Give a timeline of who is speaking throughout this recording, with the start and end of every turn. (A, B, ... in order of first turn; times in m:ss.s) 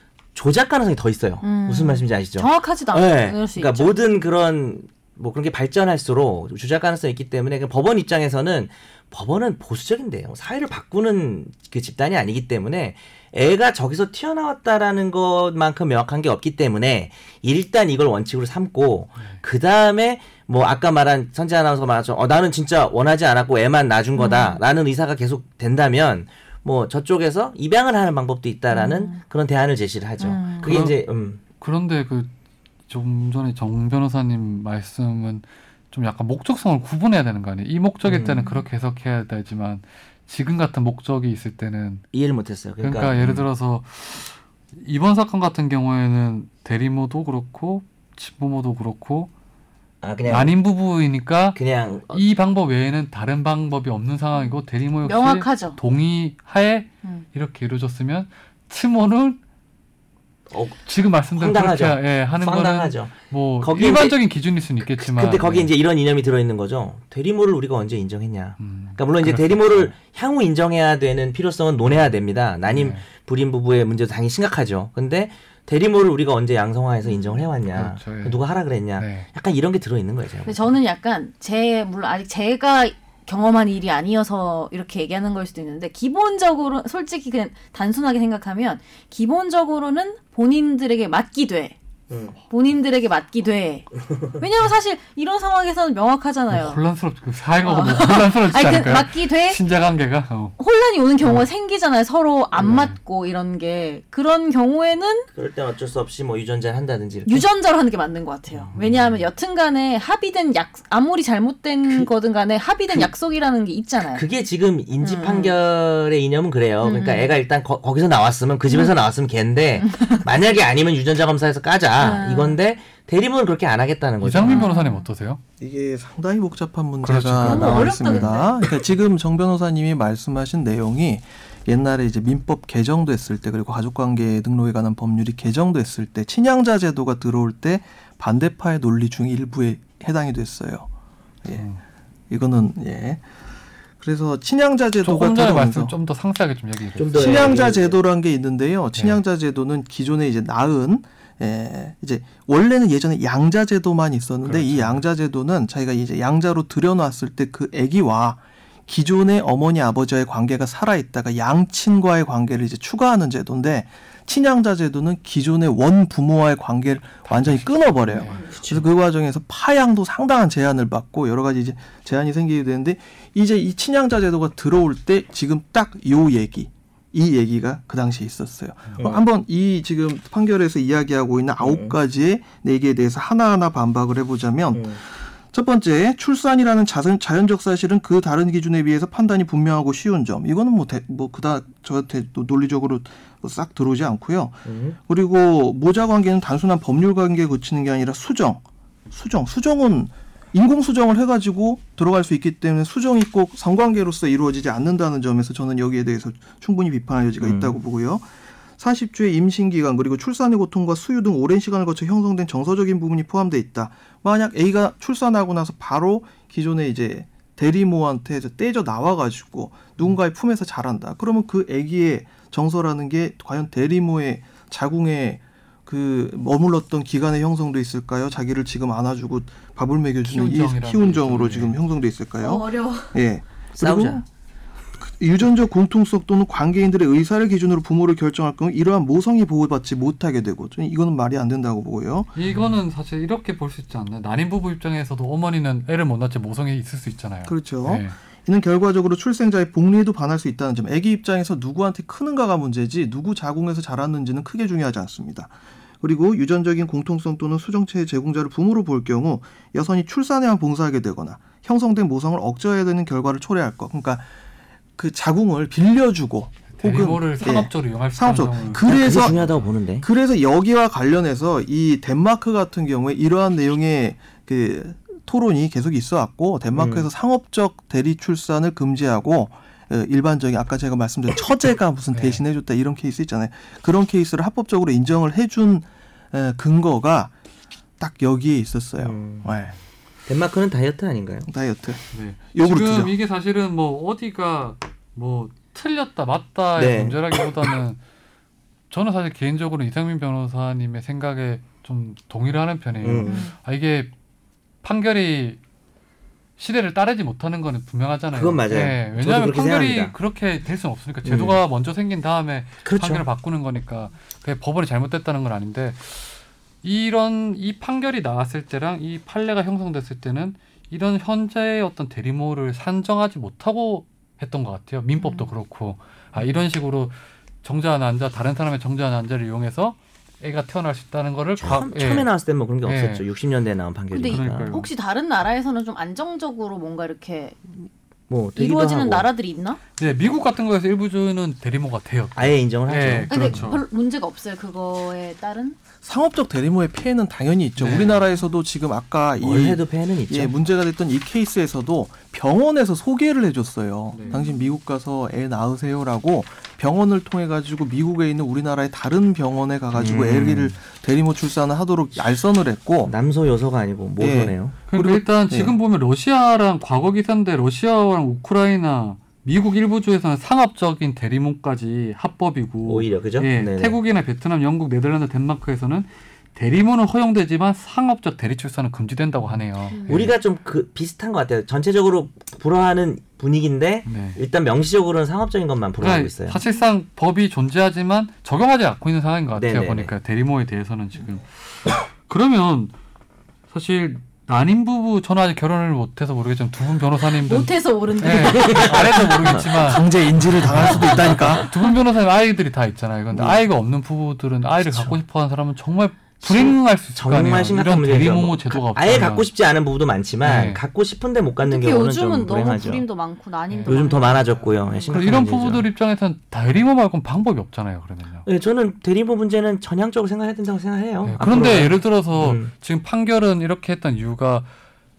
0:00.3-0:31.4 A
0:01.4-0:03.9 B
0:24.2-0:24.6 B
0:28.7-0:29.2 B
0:30.2-0:30.8 B
0:30.6-0:30.9 C
0:31.6-0:32.3 C
0:32.9-0:42.0 C
0:38.0-0:38.5 A
0:42.1-0:43.5 A
0:42.8-0:49.3 C
0:50.0-0:50.6 A
0:50.3-0:51.6 C
0:51.5-0:52.2 A
0:52.1-0:59.4 C
0:54.3-0:55.8 B
1:00.5-1:04.2 A
1:00.8-1:05.7 C
1:04.8-1:20.7 A
1:08.6-1:09.9 C
1:12.6-1:13.0 C
1:17.0-1:17.4 B
1:17.7-1:18.4 C
1:19.0-1:19.3 C
1:20.4-1:31.7 B
1:32.1-1:32.3 A
1:32.5-1:36.8 B
1:36.5-1:40.6 C
1:37.6-1:39.6 B
1:40.6-1:45.3 B
1:45.3-1:47.4 A
1:47.2-1:54.2 B
1:48.6-1:49.0 A
1:48.7-1:49.0 C
1:54.1-2:04.7 A
1:55.0-1:55.5 B
1:56.8-1:57.4 B
1:59.8-2:00.3 B
2:02.0-2:02.6 B
2:04.2-2:05.4 C
2:04.4-2:05.0 B
2:05.6-2:20.9 D
2:07.0-2:07.9 C
2:07.4-2:08.6 B
2:07.8-2:08.2 A
2:21.5-2:21.8 C
2:22.3-2:23.2 D
2:24.0-2:25.9 D
2:25.0-2:27.5 C
2:27.0-2:28.0 A
2:27.1-3:54.2 D
2:34.4-2:35.0 C
2:47.3-2:48.5 C
2:59.0-2:59.3 A
3:01.6-3:02.0 A
3:04.7-3:05.0 A
3:14.6-3:15.0 A
3:27.4-3:27.7 A
3:50.2-3:51.8 C
3:52.4-3:53.1 B
3:53.8-3:54.2 A
3:55.0-4:02.3 D
4:02.3-4:08.2 C
4:07.4-4:24.3 D
4:25.0-4:29.4 D
4:26.7-4:29.6 C
4:28.8-4:30.0 A
4:30.0-4:47.3 D
4:36.7-4:37.1 A
4:42.1-4:42.4 C
4:48.0-4:49.7 D
4:49.0-4:49.5 A
4:50.2-4:51.5 A
4:51.5-4:53.1 D
4:52.1-4:58.0 C
4:56.7-4:57.5 A
4:58.9-5:04.1 C
5:03.0-5:03.5 A
5:03.2-5:03.5 B
5:04.8-5:05.6 C
5:06.6-5:32.3 C
5:08.3-5:10.1 A
5:11.2-5:11.6 A
5:12.8-5:13.2 A
5:25.2-5:25.5 B
5:31.6-5:34.7 A
5:32.8-5:33.2 C
5:34.1-5:37.6 B
5:34.2-5:34.9 C
5:38.3-5:39.3 A
5:38.6-5:39.8 B
5:40.0-5:43.8 C
5:42.4-5:43.7 A
5:43.3-5:45.8 B
5:46.0-6:03.1 D
5:47.8-5:48.3 C
5:49.4-5:50.5 A
5:54.1-5:54.4 C
5:54.3-5:54.7 B
5:59.9-6:00.8 A
6:03.0-6:04.7 A
6:04.2-6:05.8 D
6:04.9-6:20.3 C
6:12.8-6:14.0 A
6:19.9-6:20.2 B
6:20.0-6:26.6 A
6:24.1-6:24.4 C
6:26.0-6:32.9 C
6:29.5-6:30.1 A
6:33.7-6:49.5 C
6:37.2-6:39.4 B
6:38.5-6:39.7 A
6:39.7-6:41.7 D
6:40.9-6:41.2 B
6:43.3-6:43.6 A
6:44.8-6:45.1 A
6:46.4-6:53.0 A
6:50.4-6:50.8 C
6:51.6-6:55.1 B
6:53.7-6:54.0 C
6:53.8-6:55.9 A
6:55.0-6:58.4 C
6:58.4-7:02.7 A
7:01.2-7:04.7 C